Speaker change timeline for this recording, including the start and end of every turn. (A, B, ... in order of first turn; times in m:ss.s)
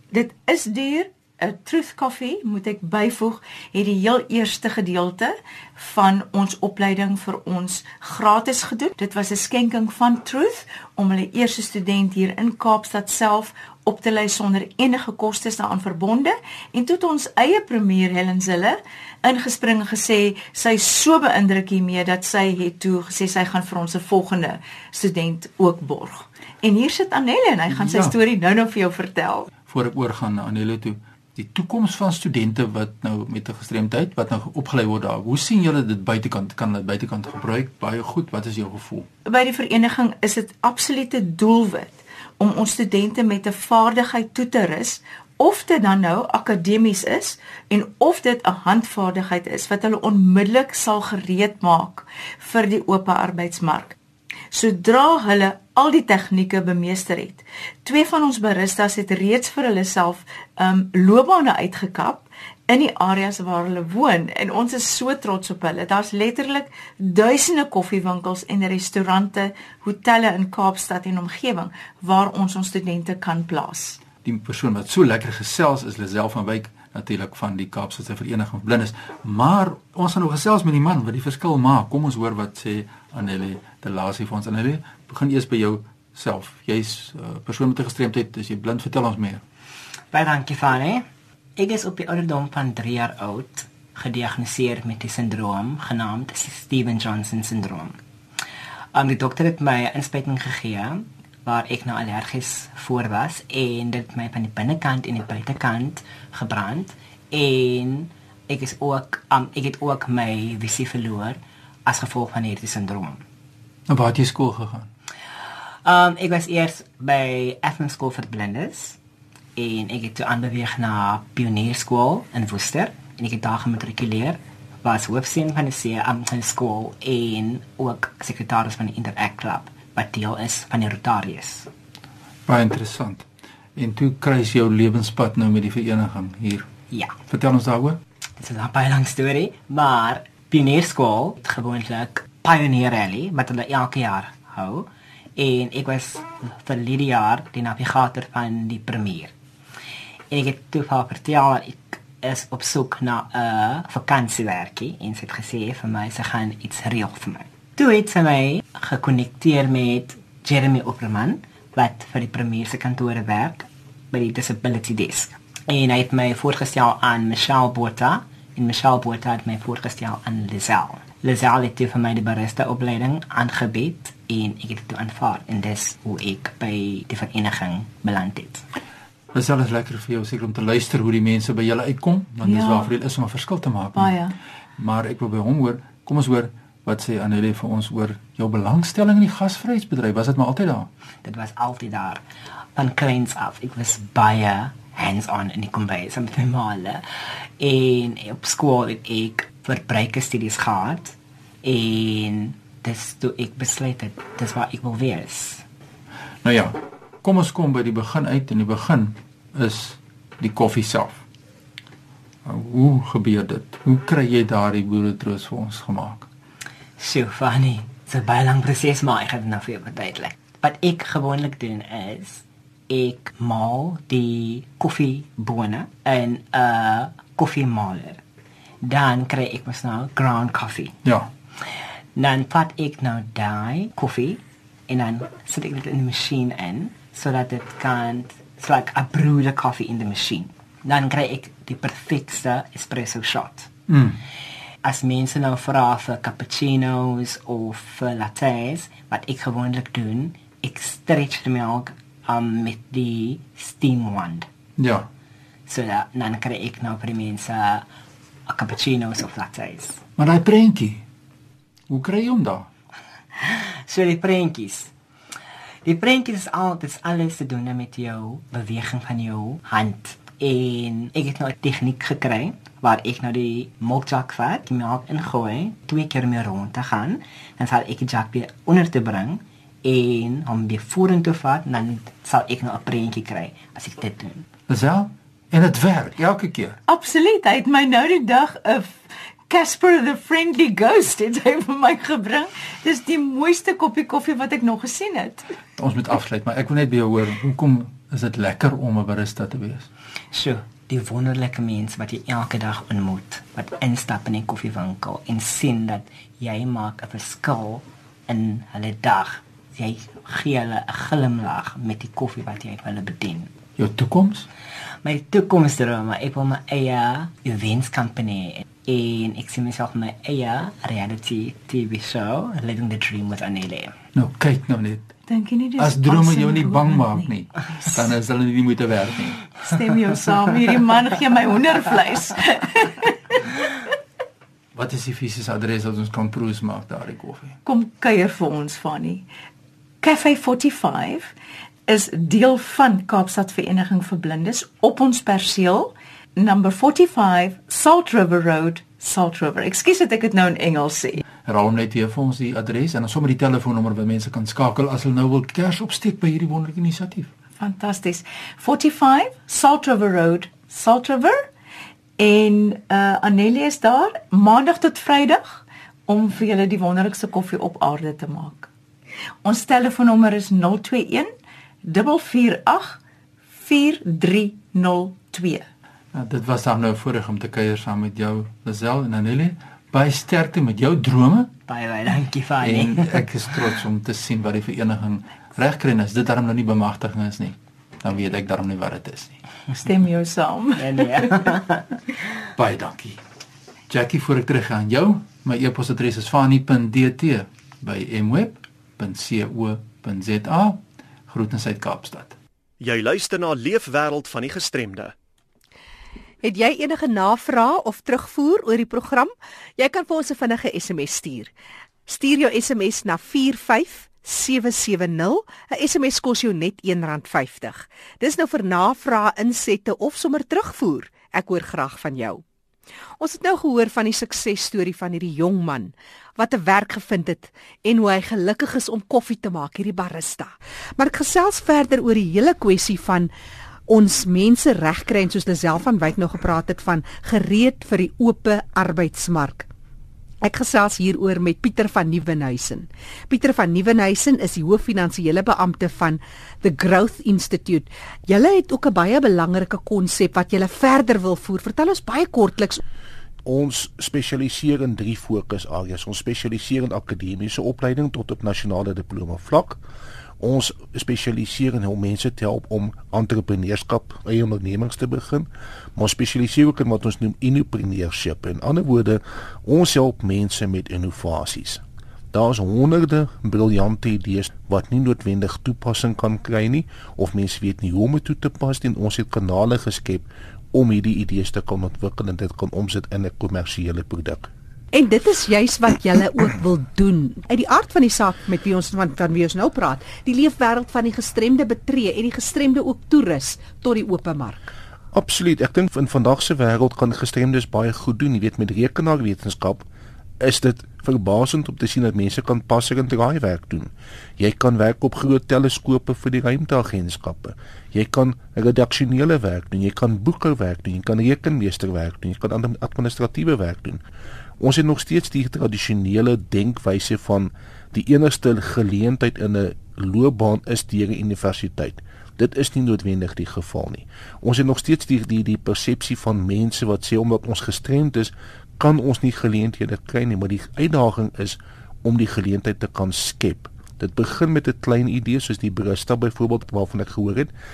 0:00.1-0:29.5 A
0:27.7-0:28.2 B
0:29.6-0:39.1 B
0:39.2-0:54.0 A
0:54.5-1:14.0 A
1:14.2-1:29.4 B
1:30.1-1:31.0 C
1:31.6-1:38.0 C
1:38.9-1:53.2 C
1:53.9-1:54.9 B
1:55.8-1:59.0 C
1:59.6-2:11.7 C
2:12.4-2:16.7 B
2:17.3-2:18.0 B
2:18.4-2:29.3 C
2:30.3-2:58.6 C
2:59.3-3:04.2 B
3:02.4-3:02.9 A
3:03.9-3:04.4 A
3:04.8-3:10.9 B
3:11.2-3:12.2 C
3:12.8-3:17.0 C
3:17.6-3:25.6 C
3:26.4-3:31.2 B
3:32.4-3:36.3 B
3:37.0-3:48.2 C
3:48.8-3:51.0 C
3:51.0-3:51.3 B
3:52.2-4:03.7 C
4:03.9-4:04.2 B
4:04.8-4:14.5 C
4:14.8-4:15.1 B
4:15.7-4:17.8 C
4:18.5-4:20.0 C
4:20.2-4:21.0 B
4:21.9-4:22.7 B
4:23.4-4:24.9 C
4:25.8-4:44.5 C
4:44.7-4:46.8 B
4:46.9-4:55.5 A
4:55.8-4:59.9 B
5:00.3-5:13.5 C
5:13.8-5:14.5 B
5:15.0-5:24.0 C
5:24.1-5:25.1 B
5:25.3-5:27.3 A
5:25.8-5:29.6 B
5:29.6-5:33.4 A
5:34.7-5:37.6 B
5:37.6-5:39.3 A
5:40.0-5:41.3 A
5:41.9-5:51.2 A
5:51.4-5:57.3 B
5:57.6-6:01.4 A
6:02.2-6:08.7 A
6:09.4-6:11.3 A
6:11.8-6:13.0 A
6:13.6-6:15.7 A
6:16.1-6:21.5 B
6:21.7-6:23.6 C
6:22.6-6:29.4 B
6:29.7-6:31.6 A
6:30.8-6:31.9 C
6:32.6-6:33.2 B
6:33.9-6:42.4 B
6:42.8-6:45.1 D
6:46.4-6:51.5 E
6:52.1-7:02.4 E
7:03.2-7:13.3 E
7:13.9-7:19.7 E
7:20.4-7:32.8 E
7:33.4-7:39.8 F
7:40.4-8:04.5 F
8:04.9-8:14.7 E
8:15.1-8:19.8 F
8:20.4-8:34.0 F
8:34.6-8:57.5 F